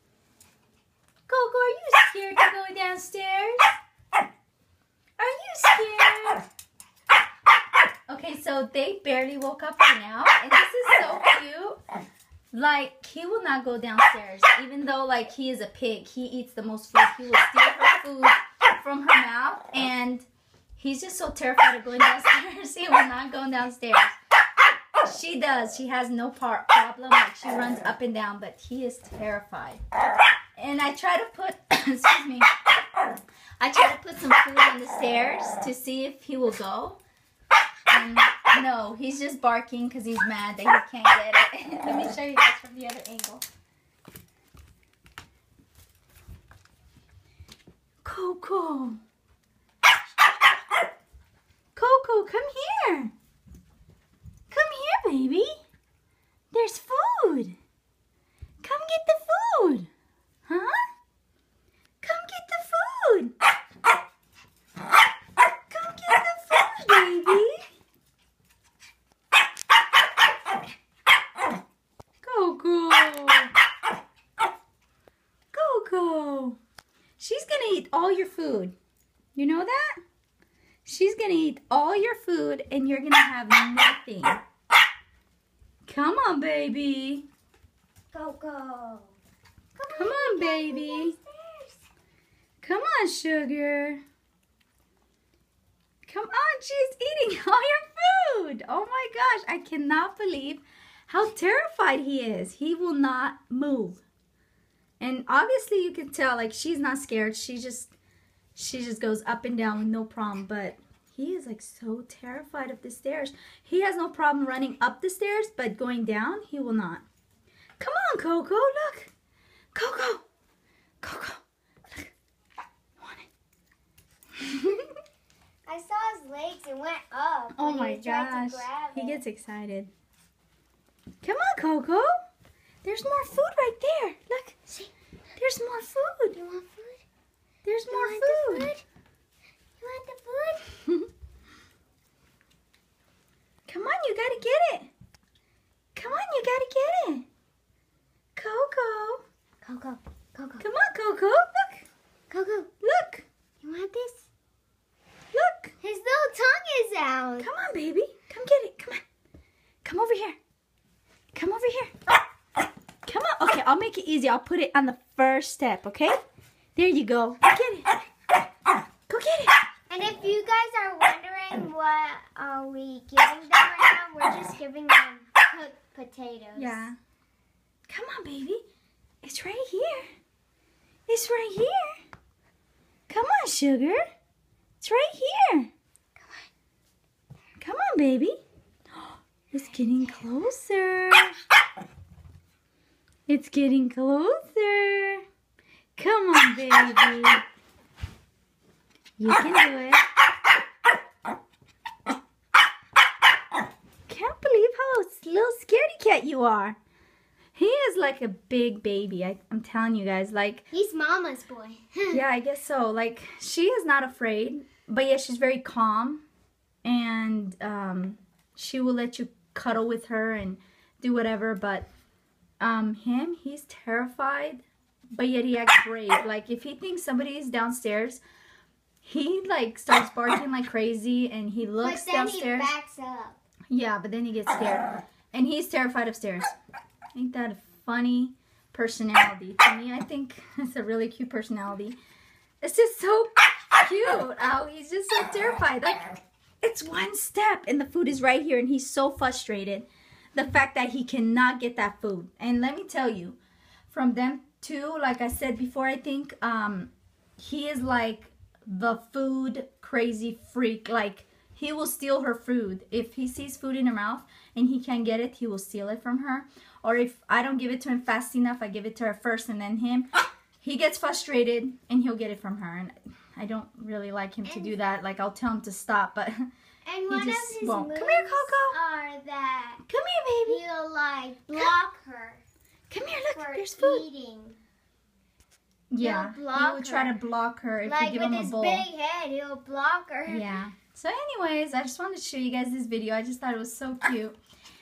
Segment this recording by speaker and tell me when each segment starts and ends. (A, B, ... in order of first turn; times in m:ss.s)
0:01.3-0:03.7 A
0:05.2-0:06.4 A
0:08.1-0:11.8 A
0:12.5-0:20.2 A
0:20.8-0:24.2 A
0:25.0-0:29.8 A
0:30.6-0:32.5 A
0:33.6-0:37.0 A
0:37.9-0:43.4 A
0:48.0-0:49.0 A
0:51.7-0:53.1 A
0:54.5-0:55.6 A
0:56.5-0:57.5 A
0:58.6-0:59.9 A
1:00.5-1:00.9 A
1:02.0-1:03.3 A
1:05.7-1:07.7 A
1:12.2-1:13.5 A
1:15.5-1:16.6 A
1:17.2-1:18.7 A
1:19.3-1:20.0 A
1:20.8-1:24.4 A
1:25.8-1:27.3 A
1:28.1-1:29.2 B
1:29.8-1:31.8 B
1:29.9-1:31.1 A
1:32.6-1:34.0 A
1:36.0-1:44.0 A
1:45.0-1:47.9 A
1:48.6-1:57.0 A
1:57.8-1:59.1 A
1:59.7-2:00.2 A
2:01.0-2:02.1 A
2:03.0-2:03.3 A
2:04.4-2:04.9 A
2:05.6-2:09.2 B
2:07.5-2:09.9 A
2:11.2-2:12.1 A
2:12.8-2:14.6 A
2:15.4-2:16.4 A
2:16.3-2:17.0 B
2:17.6-2:18.7 A
2:17.9-2:18.8 B
2:19.8-2:20.7 B
2:23.7-2:24.9 A
2:25.9-2:27.2 A
2:28.4-2:29.2 A
2:29.6-2:30.6 B
2:30.6-2:31.9 A
2:32.3-2:32.7 B
2:32.8-2:33.2 A
2:33.6-2:34.2 B
2:35.3-2:35.7 A
2:35.8-2:37.5 B
2:37.4-2:39.0 A
2:39.8-2:40.4 A
2:41.3-2:41.9 A
2:43.0-2:46.2 A
2:46.8-2:47.9 A
2:49.1-2:49.5 A
2:49.9-2:56.8 B
2:56.6-2:57.0 A
2:57.9-2:58.6 A
2:59.2-3:00.1 A
3:01.1-3:02.0 A
3:03.1-3:04.0 A
3:04.8-3:05.7 A
3:07.6-3:08.4 A
3:09.5-3:11.4 A
3:13.3-3:15.2 A
3:16.0-3:17.4 A
3:19.2-3:20.0 A
3:24.1-3:26.8 A
3:27.5-3:30.7 A
3:30.7-3:32.2 B
3:32.1-3:36.2 A
3:36.8-3:41.9 A
3:42.6-3:48.2 A
3:49.0-3:52.7 A
3:51.8-3:53.4 B
3:53.7-3:56.5 A
3:57.1-4:02.0 A
4:02.6-4:30.1 A
4:30.6-4:36.5 A
4:34.4-4:34.8 B
4:36.8-4:39.8 B
4:37.1-4:38.8 A
4:39.8-4:40.6 A
4:40.4-4:42.4 B
4:42.9-4:44.0 A
4:43.3-4:44.6 B
4:45.9-4:48.8 A
4:46.0-4:47.2 B
4:47.8-4:50.5 B
4:50.2-4:54.4 A